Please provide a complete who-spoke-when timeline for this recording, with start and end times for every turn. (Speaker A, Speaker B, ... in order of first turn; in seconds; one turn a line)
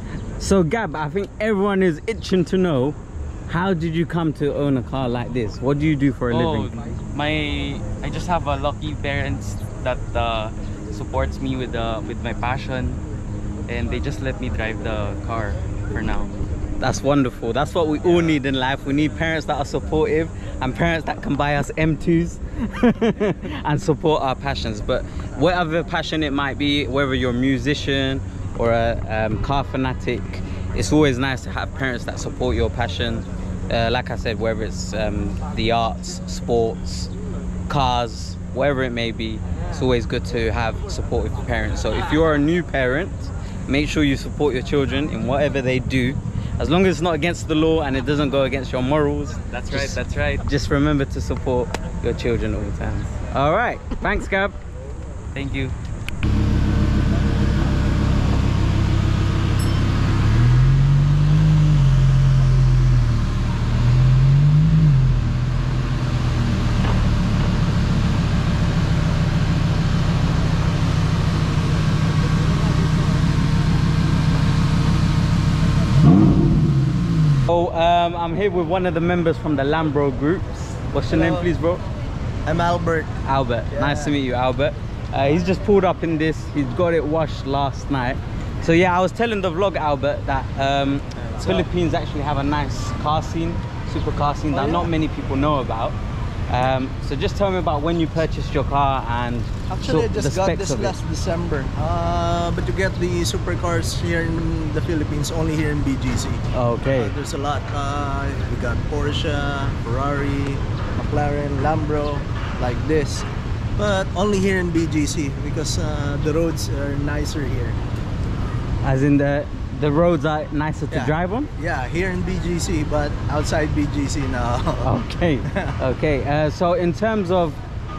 Speaker A: 0.4-3.0
Speaker A: 3.5-6.8
Speaker B: 6.3-13.0
Speaker B: 13.7-16.3
Speaker A: 16.8-37.1
Speaker A: 37.7-54.6
Speaker B: 49.5-50.4
Speaker B: 55.3-55.7
Speaker A: 77.5-81.8
Speaker C: 81.1-81.5
Speaker C: 82.5-83.1
Speaker A: 83.2-101.0
Speaker C: 83.7-84.1
Speaker C: 91.4-91.7
Speaker C: 94.5-94.9
Speaker C: 99.7-117.8
Speaker A: 106.5-107.1
Speaker A: 118.8-121.5
Speaker C: 120.9-124.9
Speaker A: 124.8-127.6